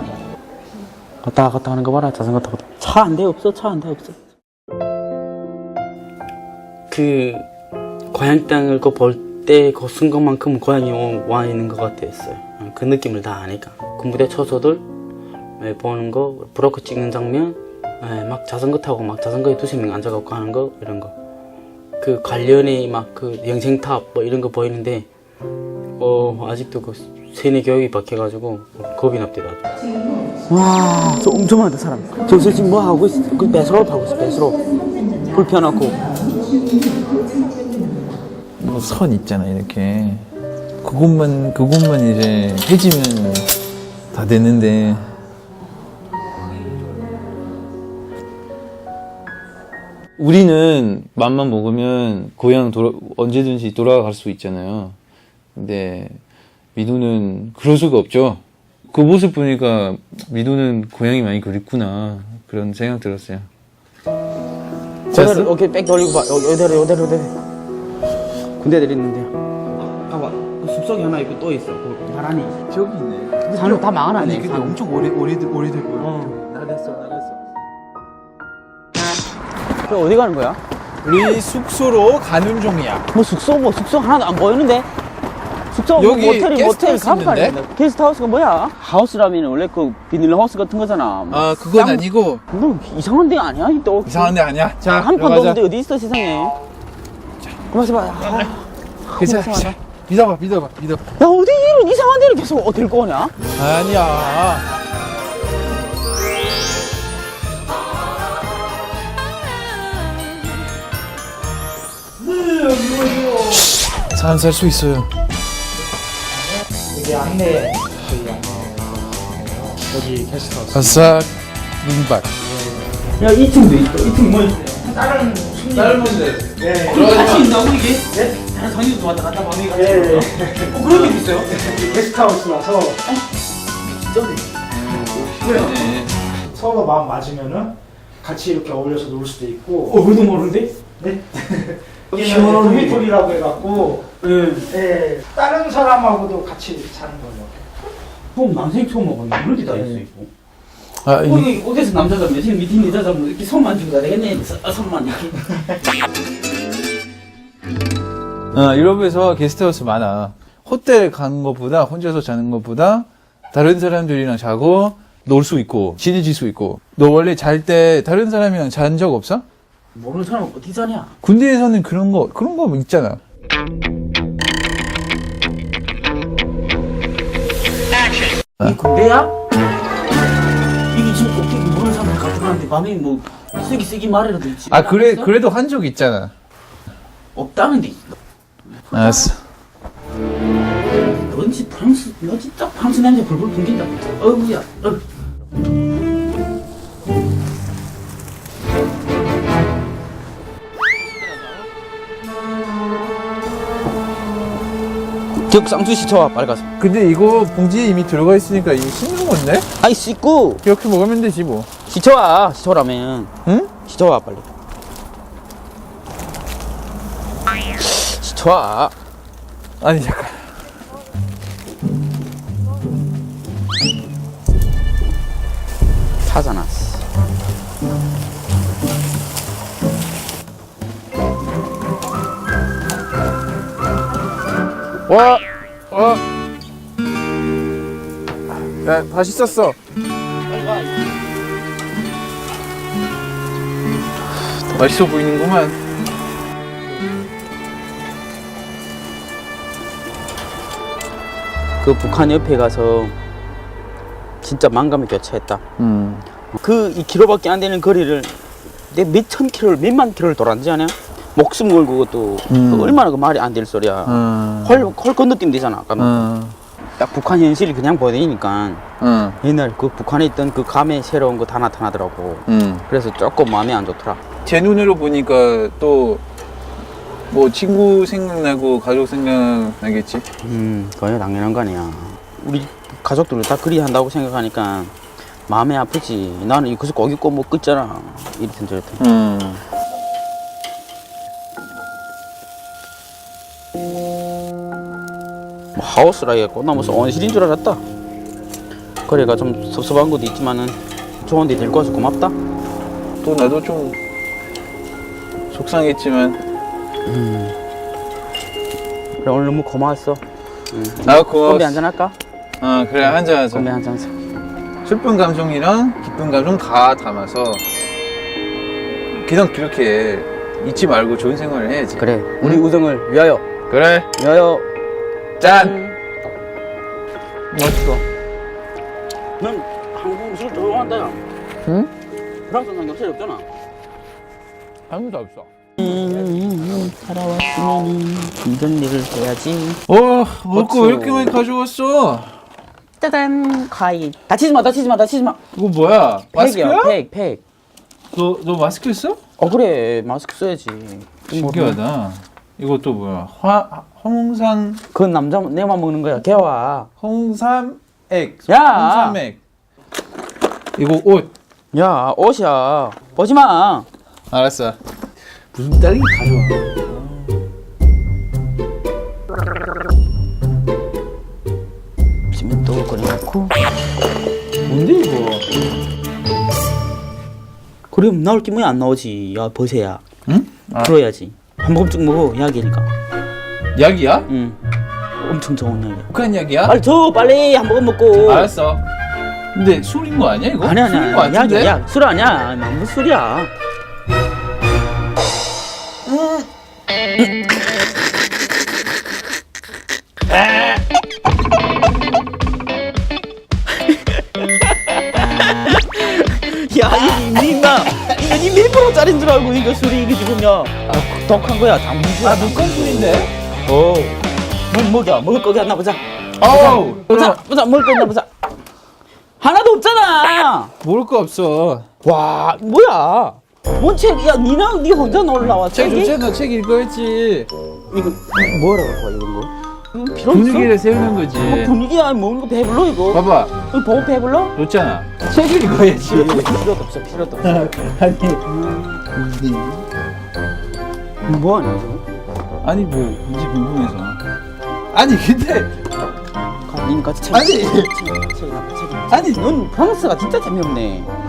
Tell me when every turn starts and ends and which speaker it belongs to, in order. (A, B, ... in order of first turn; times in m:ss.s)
0:01.2-0:04.2 A
0:06.9-0:07.5 A
0:08.1-0:14.8 A
0:15.6-0:21.1 A
0:22.0-0:25.1 A
0:26.0-0:29.7 A
0:30.5-0:34.6 A
0:35.3-0:36.1 A
0:38.6-0:40.3 B
0:40.8-0:43.5 B
0:44.1-0:45.1 B
0:50.2-0:55.0 B
0:55.6-0:56.2 B
0:56.8-1:03.5 B
1:05.1-1:05.5 B
1:05.1-1:07.3 A
1:08.6-1:09.3 A
1:09.8-1:12.6 A
1:12.7-1:17.4 B
1:13.5-1:14.8 A
1:16.0-1:16.4 A
1:19.8-1:20.6 A
1:21.0-1:23.1 B
1:23.1-1:24.9 A
1:25.7-1:34.4 A
1:26.0-1:27.6 B
1:31.3-1:32.4 B
1:34.1-1:35.6 B
1:34.9-1:36.6 A
1:37.7-1:39.8 A
1:38.2-1:38.5 B
1:39.1-1:41.0 B
1:41.2-1:43.4 A
1:43.6-1:44.7 B
1:52.3-1:53.5 C
1:53.4-1:55.1 B
1:56.9-2:01.2 C
2:00.7-2:02.3 B
2:02.4-2:03.0 C
2:03.2-2:05.0 A
2:04.8-2:07.2 C
2:05.7-2:07.6 B
2:05.8-2:06.2 A
2:06.8-2:11.8 A
2:09.8-2:10.9 C
2:11.5-2:13.0 C
2:13.8-2:14.6 A
2:14.7-2:16.2 B
2:15.4-2:15.9 A
2:16.5-2:20.0 C
2:19.9-2:20.8 A
2:21.0-2:24.1 C
2:22.1-2:23.1 A
2:24.2-2:24.7 A
2:24.7-2:27.6 C
2:28.4-2:30.3 A
2:31.0-2:31.5 B
2:31.2-2:35.5 A
2:38.5-2:49.4 B
2:49.9-2:51.1 A
2:51.2-2:53.2 B
2:58.6-2:59.3 A
3:00.9-3:05.3 A
3:04.7-3:06.3 B
3:07.4-3:08.2 A
3:08.9-3:09.3 A
3:08.9-3:09.4 B
3:11.0-3:15.0 A
3:25.4-3:26.7 A
3:26.8-3:29.7 B
3:29.8-3:30.6 A
3:30.6-3:31.7 B
3:31.9-3:34.5 A
3:33.4-3:33.7 B
3:37.8-3:39.0 A
3:39.8-3:40.5 B
3:46.2-3:47.0 A
3:55.1-3:56.2 B
3:58.6-3:59.8 B
4:00.5-4:01.0 A
4:04.7-4:05.8 B
4:11.8-4:13.2 A
4:14.4-4:15.6 A
4:15.8-4:16.3 B
4:16.6-4:18.4 A
4:18.9-4:26.3 A
4:22.5-4:23.0 B
4:24.1-4:24.9 B
4:26.0-4:26.6 B
4:27.0-4:28.8 A
4:29.0-4:29.4 B
4:29.4-4:34.2 A
4:32.5-4:32.8 B
4:34.4-4:36.2 B
4:37.3-4:40.2 B
4:40.4-4:45.0 A
4:45.5-4:49.0 A
4:49.0-4:49.6 B
4:55.8-4:57.8 A
4:59.1-5:02.4 A
5:03.2-5:04.0 B
5:05.5-5:06.4 B
5:07.1-5:07.6 A
5:09.2-5:12.2 A
5:11.0-5:11.8 B
5:12.6-5:13.7 B
5:13.5-5:14.1 A
5:14.8-5:17.6 B
5:19.1-5:22.6 B
5:22.0-5:23.4 A
5:23.7-5:24.1 B
5:24.2-5:24.7 A
5:25.4-5:25.8 B
5:25.4-5:26.0 A
5:27.5-5:28.0 B
5:29.4-5:31.2 A
5:32.5-5:33.5 A
5:34.9-5:35.5 B
5:35.8-5:39.8 A
5:39.9-5:42.4 B
5:40.5-5:41.4 A
5:43.0-5:45.4 A
5:45.5-5:46.9 B
5:46.3-5:47.4 A
5:48.1-5:49.2 B
5:49.4-5:51.8 A
5:51.3-5:54.8 B
5:54.9-5:56.9 A
5:57.0-5:59.4 B
5:58.5-5:59.2 A
6:00.8-6:01.3 B
6:01.7-6:03.9 A
6:04.3-6:04.8 B
6:05.5-6:07.1 B
6:12.3-6:13.5 A
6:14.7-6:15.4 B
6:17.9-6:20.0 A
6:20.3-6:20.9 B
6:20.8-6:22.9 A
6:23.8-6:24.3 B
6:24.3-6:24.6 A
6:25.2-6:26.1 A
6:26.1-6:26.8 B
6:26.6-6:28.5 A
6:28.1-6:28.8 B
6:29.5-6:31.8 B
6:30.6-6:33.5 A
6:36.1-6:36.5 B
6:40.3-6:40.8 A
6:43.7-6:58.3 A
6:52.2-6:53.3 B
6:56.4-6:57.4 B
6:59.4-7:00.7 A
7:00.8-7:01.9 B
7:02.0-7:06.2 A
7:05.1-7:07.5 B
7:07.9-7:14.6 A
7:10.3-7:11.7 B
7:13.1-7:13.5 B
7:14.6-7:16.6 B
7:16.0-7:17.7 A
7:17.4-7:18.4 B
7:18.4-7:19.1 A
7:19.1-7:19.9 B
7:21.3-7:22.0 A
7:22.6-7:24.2 B
7:24.9-7:25.8 B
7:26.7-7:31.1 A
7:27.3-7:27.9 B
7:29.1-7:29.5 B